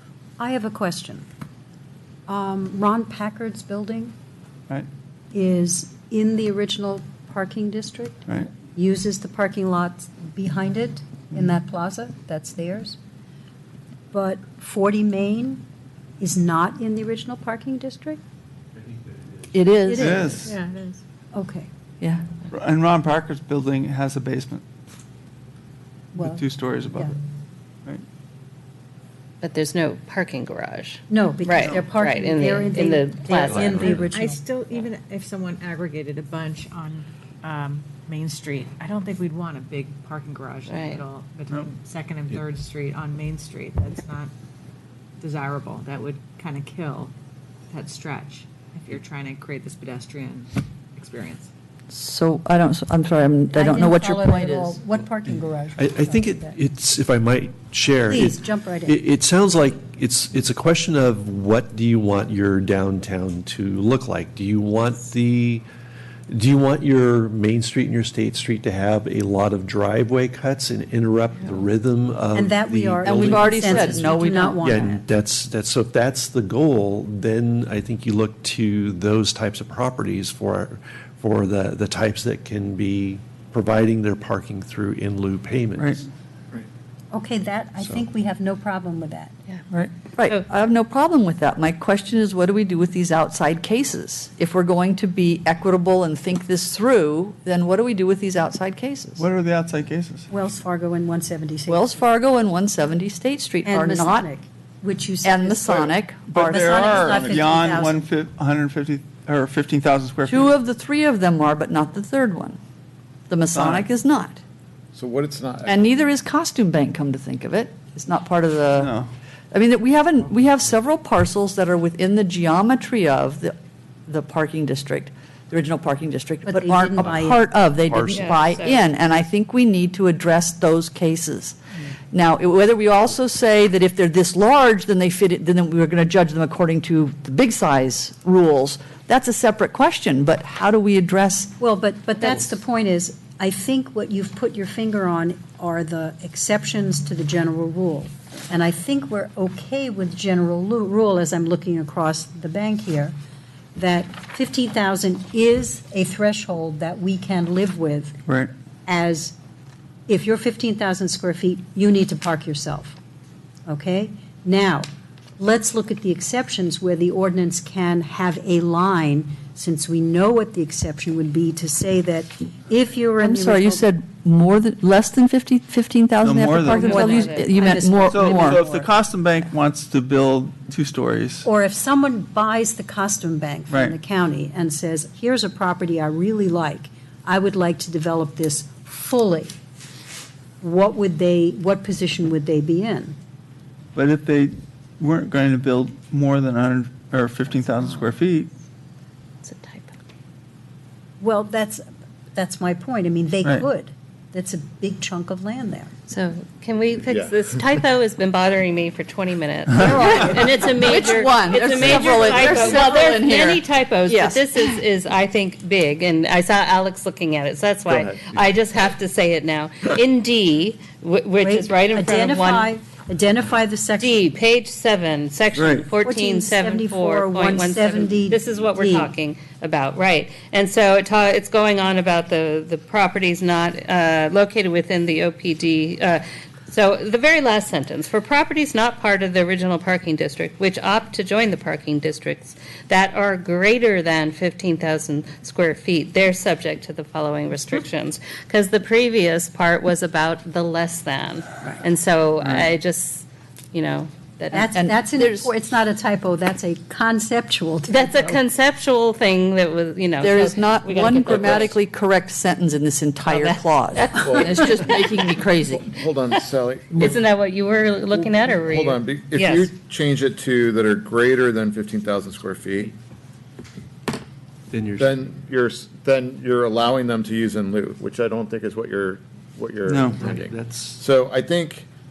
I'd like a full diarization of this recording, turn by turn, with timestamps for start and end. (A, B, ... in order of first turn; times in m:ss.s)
0:00.4-0:01.2 A
0:02.3-0:04.1 A
0:05.3-0:08.1 A
0:08.3-0:08.5 B
0:08.7-0:13.0 A
0:14.1-0:15.6 A
0:16.2-0:18.2 A
0:18.8-0:19.5 C
0:19.5-0:20.3 D
0:19.9-0:20.3 A
0:20.0-0:20.6 B
0:20.4-0:21.0 E
0:21.3-0:21.7 A
0:22.5-0:24.6 B
0:26.1-0:27.1 A
0:26.2-0:27.2 B
0:29.4-0:33.8 F
0:31.1-0:34.4 A
0:33.3-0:34.1 C
0:33.8-0:44.3 E
0:40.7-0:41.0 F
0:45.2-0:47.1 E
0:47.7-0:51.5 E
0:51.9-0:54.8 D
0:53.5-0:56.6 A
0:55.2-1:05.6 C
0:58.0-0:59.0 A
1:06.3-1:26.0 C
1:12.3-1:15.0 A
1:13.0-1:14.9 D
1:27.1-1:29.3 A
1:27.8-1:28.0 C
1:30.2-1:39.2 D
1:39.2-1:40.3 B
1:40.3-1:42.0 A
1:41.7-1:44.3 D
1:43.6-1:45.9 A
1:45.2-1:47.0 D
1:46.3-1:50.5 B
1:46.5-1:48.0 A
1:50.3-1:52.6 D
1:53.3-1:54.4 D
1:53.5-1:53.9 B
1:54.9-1:55.8 G
1:55.6-1:58.9 D
1:58.8-1:59.1 B
1:59.5-2:03.5 D
2:04.1-2:11.6 D
2:06.4-2:07.4 A
2:07.8-2:08.4 C
2:08.1-2:08.8 F
2:12.1-2:21.5 D
2:21.6-2:33.1 A
2:33.7-2:38.2 A
2:38.9-2:39.3 A
2:40.1-2:43.0 A
2:43.6-2:44.8 A
2:45.4-2:53.9 A
2:53.2-2:58.6 D
2:56.2-2:57.1 B
2:56.6-2:58.6 F
2:57.0-2:57.8 A
2:58.1-3:01.4 B
3:01.4-3:09.5 A
3:03.7-3:03.9 B
3:10.6-3:13.2 A
3:13.9-3:18.5 B
3:19.4-3:19.9 F
3:21.2-3:21.8 A
3:22.3-3:25.9 A
3:26.1-3:42.7 F
3:27.1-3:27.4 G
3:29.8-3:34.8 D
3:37.9-3:38.2 G
3:41.4-3:44.3 A
3:44.0-4:14.7 F
3:45.5-3:45.9 B
3:46.0-3:49.1 A
4:14.5-4:18.3 A
4:14.7-4:15.5 D
4:17.9-4:21.7 F
4:20.2-4:25.9 D
4:21.4-4:21.7 G
4:23.2-4:25.4 F
4:24.1-4:24.7 G
4:25.7-4:27.2 G
4:26.9-4:29.7 F
4:28.2-4:32.9 G
4:34.7-4:35.2 C
4:35.0-4:41.9 G
4:39.8-4:40.2 B
4:40.2-4:41.0 C